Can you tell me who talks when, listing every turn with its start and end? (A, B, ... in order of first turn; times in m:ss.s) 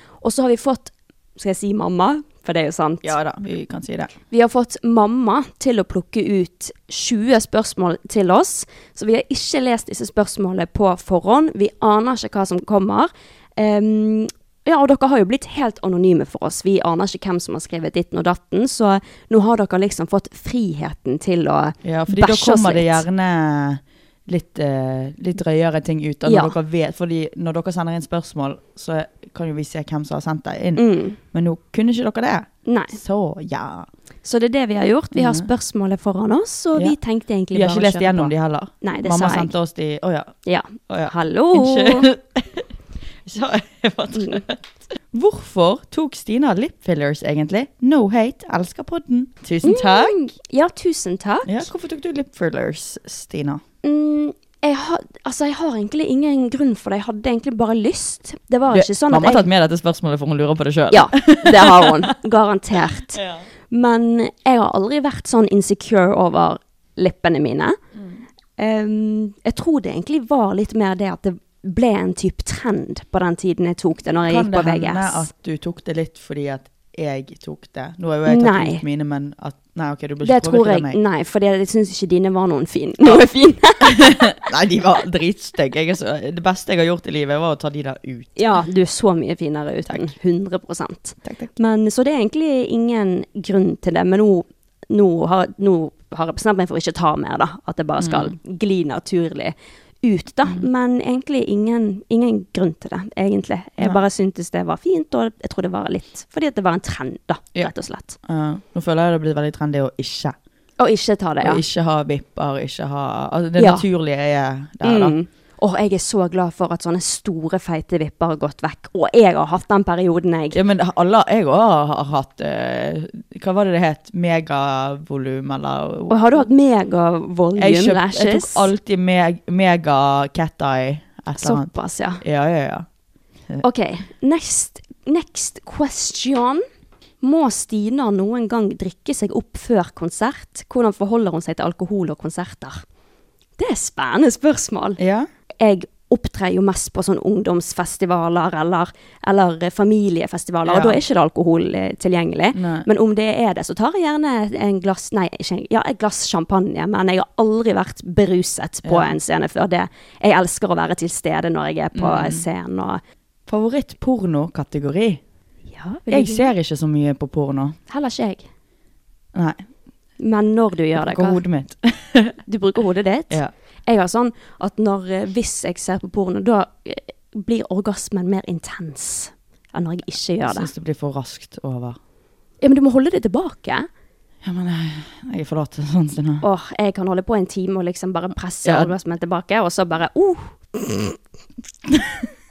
0:00.2-0:03.1 A
0:03.0-0:04.1 B
0:04.3-0:23.0 A
0:21.8-0:33.9 B
0:26.2-0:26.6 A
0:30.8-0:31.2 A
0:32.6-0:33.0 A
0:34.2-0:39.5 A
0:35.1-0:35.5 B
0:37.5-0:40.3 B
0:40.4-0:42.1 A
0:40.9-0:42.7 B
0:43.2-0:50.2 B
0:44.1-0:44.4 A
0:49.6-0:51.7 A
0:51.4-0:53.6 B
0:53.8-0:59.4 A
0:58.7-1:02.2 B
1:00.9-1:07.8 A
1:03.1-1:03.4 B
1:07.9-1:08.2 B
1:08.6-1:15.3 A
1:14.3-1:21.0 B
1:18.3-1:18.8 A
1:20.2-1:24.3 A
1:23.8-1:28.6 B
1:28.4-1:48.2 A
1:31.2-1:31.5 B
1:38.0-1:38.3 B
1:48.2-1:50.4 B
1:50.8-1:51.6 A
1:51.4-1:55.2 B
1:53.6-1:53.8 A
1:54.8-2:00.6 A
2:00.5-2:06.4 B
2:06.1-2:08.7 A
2:07.6-2:11.7 B
2:11.4-2:12.2 A
2:12.2-2:12.9 B
2:13.6-2:16.6 A
2:17.2-2:22.8 A
2:23.6-2:25.0 A
2:25.0-2:25.3 B
2:25.6-2:43.0 A
2:30.6-2:31.0 B
2:32.5-2:32.9 B
2:38.8-2:39.1 B
2:41.9-2:42.4 B
2:43.5-2:45.2 B
2:45.7-2:46.5 A
2:46.1-2:47.8 B
2:47.9-2:48.5 A
2:49.3-2:49.6 B
2:50.2-2:51.4 A
2:50.9-2:52.4 B
2:52.4-3:00.7 A
3:00.4-3:02.0 B
3:02.6-3:03.9 A
3:04.4-3:06.4 B
3:06.4-3:11.2 A
3:08.6-3:08.9 B
3:11.9-3:12.2 B